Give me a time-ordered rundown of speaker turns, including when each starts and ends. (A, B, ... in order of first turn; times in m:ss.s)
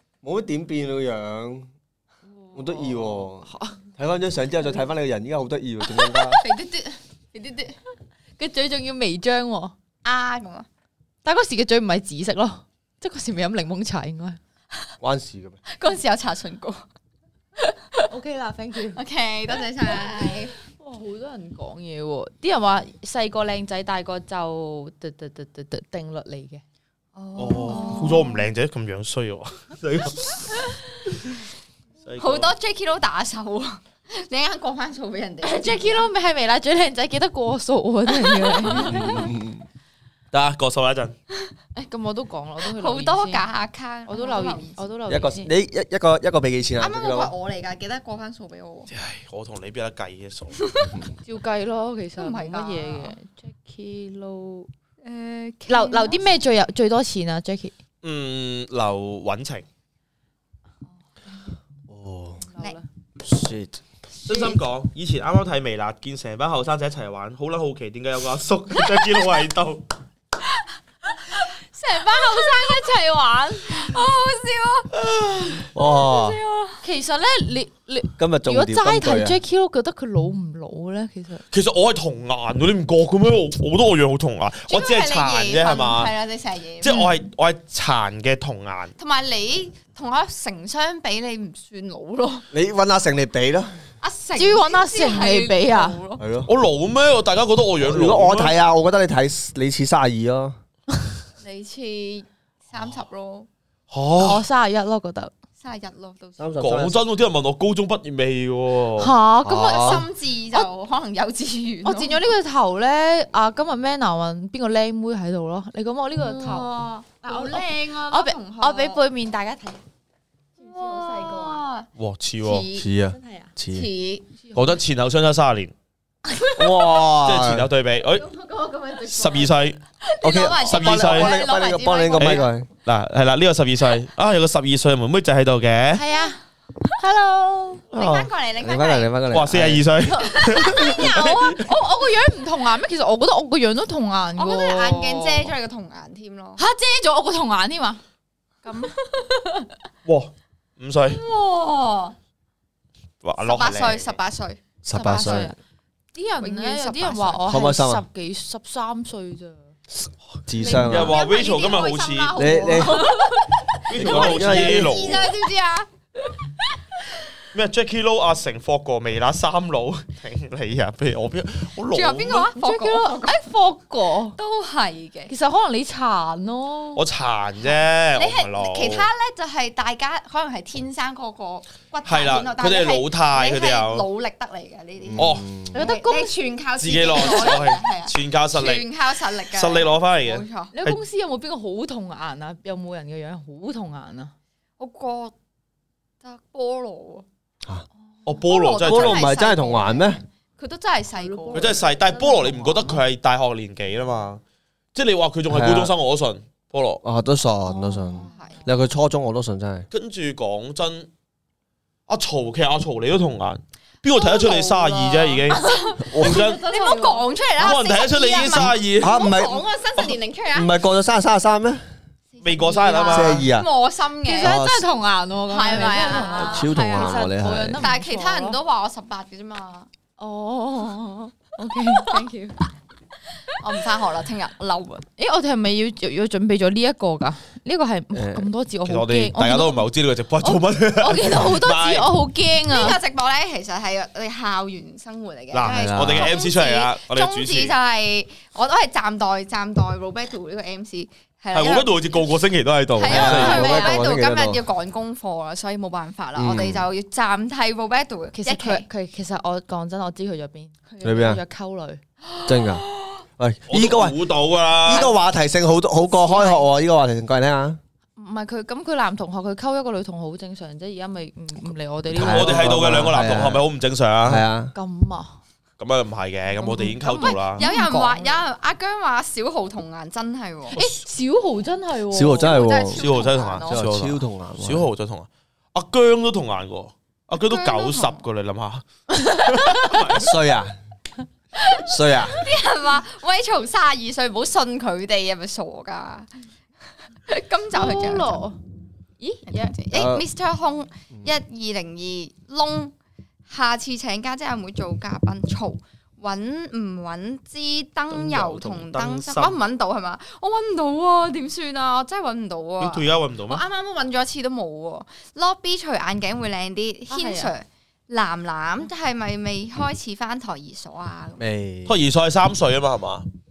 0:00.2-0:01.7 A
0:02.5-0:03.8 B
0:02.5-0:06.4 A
0:05.9-0:07.8 C
0:08.4-0:09.7 B
0:10.0-0:10.7 C
0:11.2-0:14.4 B
0:15.0-0:15.6 A
0:15.7-0:16.8 C
0:17.6-0:18.1 C
0:18.0-0:19.0 B
0:18.9-0:20.5 C
0:19.9-0:26.6 B
0:27.1-0:28.4 C
0:27.4-0:30.6 D
0:27.6-0:28.3 B
0:32.0-0:32.5 D
0:32.2-0:36.1 C
0:35.4-0:39.2 B
0:38.1-0:39.3 C
0:38.7-0:39.6 A
0:40.3-0:41.1 D
0:41.8-0:43.5 B
0:42.6-0:44.8 C
0:44.1-0:45.5 B
0:45.1-0:47.3 A
0:46.8-0:48.9 C
0:48.9-0:50.6 D
0:50.6-0:51.0 C
0:51.2-0:54.7 B
0:52.2-0:53.1 C
0:55.0-0:56.2 C
0:55.7-0:57.8 B
0:58.0-0:59.6 D
1:01.9-1:02.4 A
1:02.4-1:02.8 B
1:03.2-1:03.8 A
1:04.2-1:09.8 D
1:04.2-1:04.5 B
1:04.3-1:04.6 C
1:11.7-1:13.9 B
1:12.1-1:12.8 C
1:13.6-1:14.9 C
1:14.9-1:15.6 D
1:15.6-1:16.8 C
1:15.7-1:16.4 A
1:16.8-1:21.4 B
1:18.2-1:19.4 A
1:21.5-1:26.2 D
1:24.7-1:27.0 C
1:26.8-1:28.9 D
1:26.8-1:27.2 B
1:29.0-1:32.4 C
1:32.5-1:33.7 A
1:34.0-1:36.2 C
1:34.4-1:36.0 B
1:36.2-1:36.5 A
1:36.4-1:38.5 D
1:37.8-1:40.6 A
1:41.4-1:43.5 C
1:43.9-1:44.4 D
1:44.2-1:45.3 B
1:45.6-1:46.4 C
1:46.4-1:47.0 A
1:46.6-1:49.1 D
1:49.0-1:50.7 B
1:49.4-1:50.1 A
1:49.5-1:52.2 C
1:51.8-1:59.8 B
1:56.2-1:59.0 C
2:00.6-2:01.6 B
2:00.7-2:01.9 C
2:02.0-2:02.7 D
2:02.4-2:02.9 C
2:02.7-2:03.9 A
2:03.1-2:03.5 B
2:03.7-2:04.3 C
2:04.4-2:04.8 B
2:04.5-2:05.7 D
2:06.3-2:06.7 B
2:06.6-2:07.7 A
2:07.2-2:08.3 D
2:08.2-2:09.5 C
2:09.1-2:09.8 D
2:10.0-2:12.5 C
2:10.2-2:12.7 A
2:10.6-2:11.4 D
2:12.2-2:16.0 D
2:15.9-2:16.4 B
2:17.0-2:17.8 B
2:17.9-2:18.3 D
2:17.9-2:19.1 C
2:18.6-2:20.0 A
2:19.3-2:21.7 D
2:20.2-2:25.5 B
2:20.6-2:21.0 C
2:24.4-2:26.6 C
2:26.6-2:28.0 B
2:28.6-2:29.7 B
2:30.0-2:31.2 D
2:31.1-2:32.2 C
2:33.2-2:34.2 D
2:33.4-2:34.6 C
2:34.8-2:35.5 A
2:34.9-2:35.6 B
2:36.2-2:39.7 B
2:36.4-2:37.4 C
2:37.5-2:38.0 A
2:39.9-2:41.2 A
2:40.6-2:45.9 C
2:40.6-2:42.7 D
2:42.3-2:43.2 A
2:42.7-2:43.4 B
2:43.7-2:45.3 D
2:43.9-2:45.1 A
2:47.5-2:52.5 D
2:51.9-2:53.4 C
2:52.4-2:54.4 B
2:54.3-2:55.3 C
2:55.3-2:57.0 B
2:57.0-2:59.1 D
2:58.2-3:10.7 C
3:02.0-3:04.1 D
3:05.0-3:05.7 A
3:05.2-3:05.4 D
3:05.7-3:06.4 B
3:06.8-3:08.8 D
3:07.2-3:07.6 B
3:09.5-3:11.0 D
3:10.7-3:14.3 B
3:14.8-3:15.3 C
3:16.2-3:17.2 C
3:18.2-3:19.2 D
3:18.4-3:21.9 C
3:18.8-3:20.2 A
3:21.1-3:23.0 B
3:21.5-3:24.4 D
3:24.9-3:27.0 D
3:25.5-3:25.9 A
3:27.0-3:29.9 A
3:27.7-3:28.8 B
3:28.2-3:28.6 C
3:29.9-3:31.1 D
3:32.1-3:35.6 D
3:34.1-3:40.7 C
3:35.6-3:37.3 B
3:36.0-3:36.4 A
3:36.2-3:36.6 D
3:37.6-3:39.2 D
3:38.6-3:39.6 A
3:40.5-3:41.8 A
3:42.3-3:44.5 C
3:42.4-3:43.4 D
3:43.1-3:43.7 A
3:44.2-3:48.6 B
3:44.4-3:44.8 A
3:45.5-3:49.9 C
3:46.3-3:47.9 A
3:50.2-3:52.7 B
3:53.5-3:55.0 C
3:55.2-3:59.8 B
3:58.1-3:58.5 A
3:58.8-4:02.1 D
4:00.4-4:03.0 B
4:02.7-4:12.2 C
4:05.5-4:07.8 D
4:05.6-4:06.3 A
4:11.5-4:13.7 D
4:12.9-4:18.8 C
4:13.1-4:14.0 B
4:13.1-4:14.6 A
4:16.3-4:16.9 A
4:18.3-4:22.0 B
4:21.0-4:21.4 A
4:22.3-4:23.2 C
4:22.4-4:22.8 A
4:23.4-4:24.2 A
4:23.7-4:25.1 D
4:24.8-4:27.8 A
4:26.1-4:26.6 C
4:28.2-4:33.0 B
4:32.1-4:33.6 A
4:32.1-4:34.4 D
4:34.2-4:34.7 A
4:34.7-4:35.3 B
4:35.8-4:37.7 D
4:36.6-4:38.4 B
4:36.8-4:40.8 C
4:40.7-4:42.7 B
4:42.1-4:43.0 A
4:42.3-4:43.8 C
4:42.9-4:48.8 D
4:43.7-4:44.9 A
4:47.4-4:48.2 C
4:49.1-4:49.9 B
4:49.4-4:50.4 D
4:50.1-4:50.7 A
4:51.8-4:52.4 A
4:52.3-4:56.3 C
4:57.2-4:58.4 C
4:57.7-4:58.6 B
4:59.2-4:59.8 B
4:59.5-5:02.9 C
4:59.9-5:00.2 A
5:03.5-5:21.4 C
5:08.1-5:09.6 D
5:12.8-5:13.6 D
5:17.1-5:17.5 B
5:21.4-5:22.0 A
5:21.8-5:23.2 D